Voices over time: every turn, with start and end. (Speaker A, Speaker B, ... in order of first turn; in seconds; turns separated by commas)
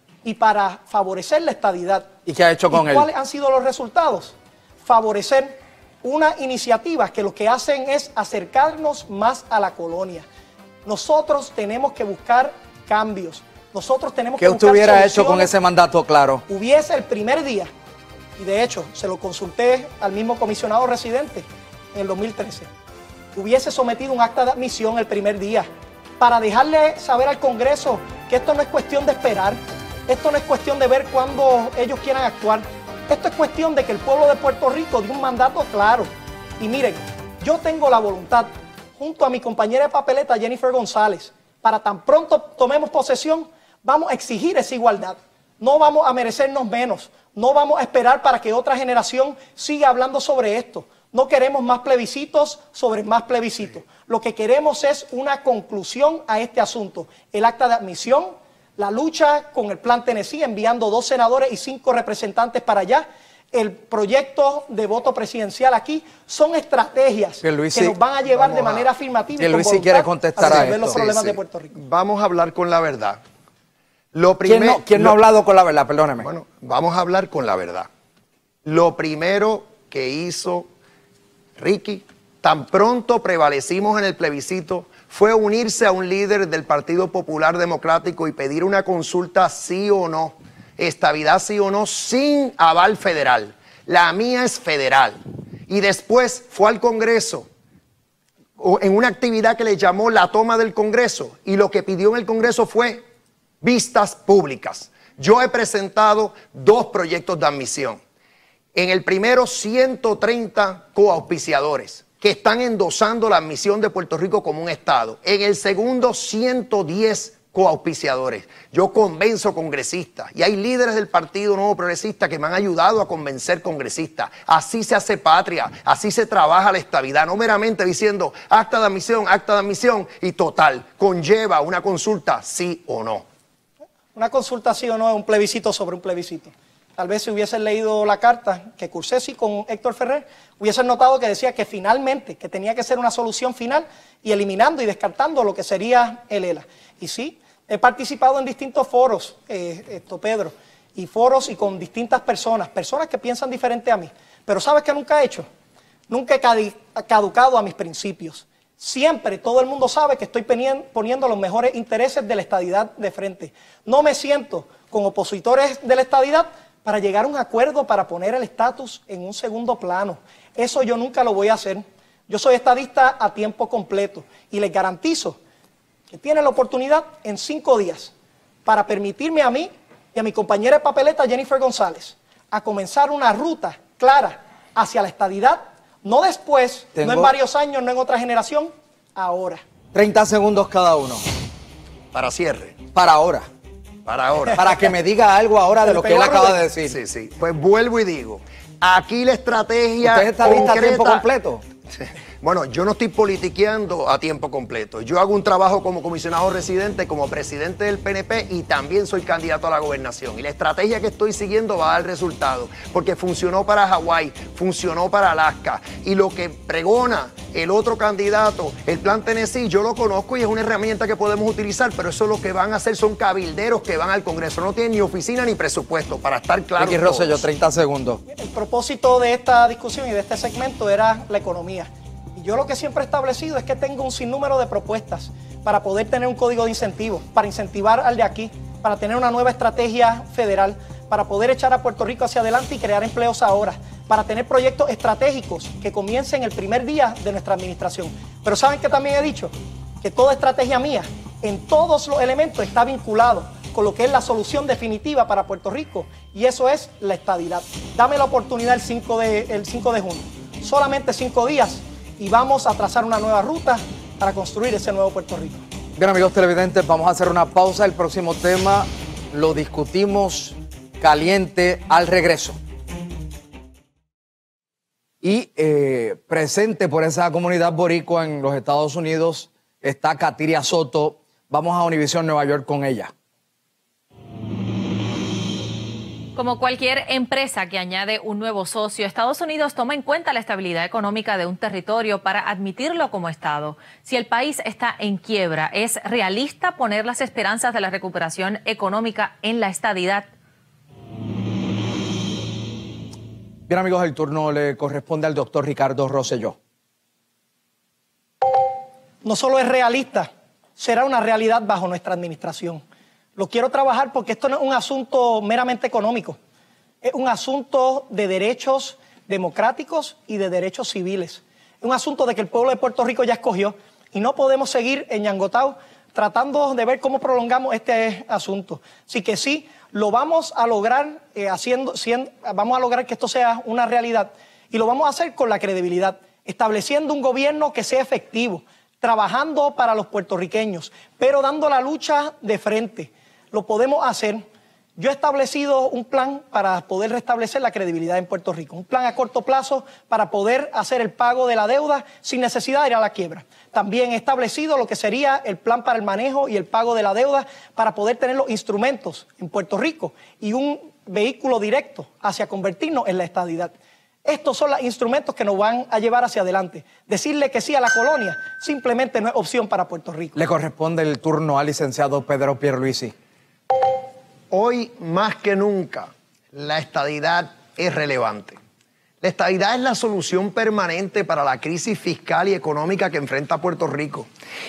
Speaker A: 0.2-2.1, Speaker B: 2.3-3.1, Speaker A: 2.7-10.3, Speaker A: 10.8-15.5, Speaker B: 14.4-16.4, Speaker A: 16.5-17.7, Speaker A: 18.4-22.7, Speaker A: 23.4-25.7, Speaker A: 26.2-36.1, Speaker A: 36.6-71.8, Speaker B: 67.4-68.0, Speaker C: 68.3-68.9, Speaker B: 69.4-71.0, Speaker C: 70.4-73.2, Speaker C: 74.1-75.2, Speaker B: 74.5-76.3, Speaker C: 76.2-77.9, Speaker C: 78.7-80.7, Speaker C: 81.6-97.5, Speaker C: 98.6-103.0, Speaker C: 103.6-108.0, Speaker C: 108.8-133.2, Speaker A: 134.2-155.5, Speaker A: 156.1-175.4, Speaker A: 176.1-178.1, Speaker A: 178.7-189.6, Speaker B: 187.0-187.3, Speaker B: 189.9-191.2, Speaker C: 192.1-192.8, Speaker B: 192.9-193.5, Speaker C: 194.1-194.8, Speaker B: 194.6-197.0, Speaker A: 195.8-196.6, Speaker C: 196.8-201.3, Speaker B: 200.0-201.6, Speaker C: 201.9-227.4, Speaker B: 226.8-228.2, Speaker A: 228.3-265.6, Speaker B: 266.0-272.6, Speaker B: 275.2-283.1, Speaker D: 286.4-300.3, Speaker B: 303.7-306.6, Speaker A: 309.2-312.8, Speaker A: 313.4-316.4, Speaker A: 317.0-344.4, Speaker A: 345.0-363.7, Speaker A: 364.2-370.4, Speaker B: 370.4-373.1, Speaker C: 374.5-378.6, Speaker C: 379.2-384.3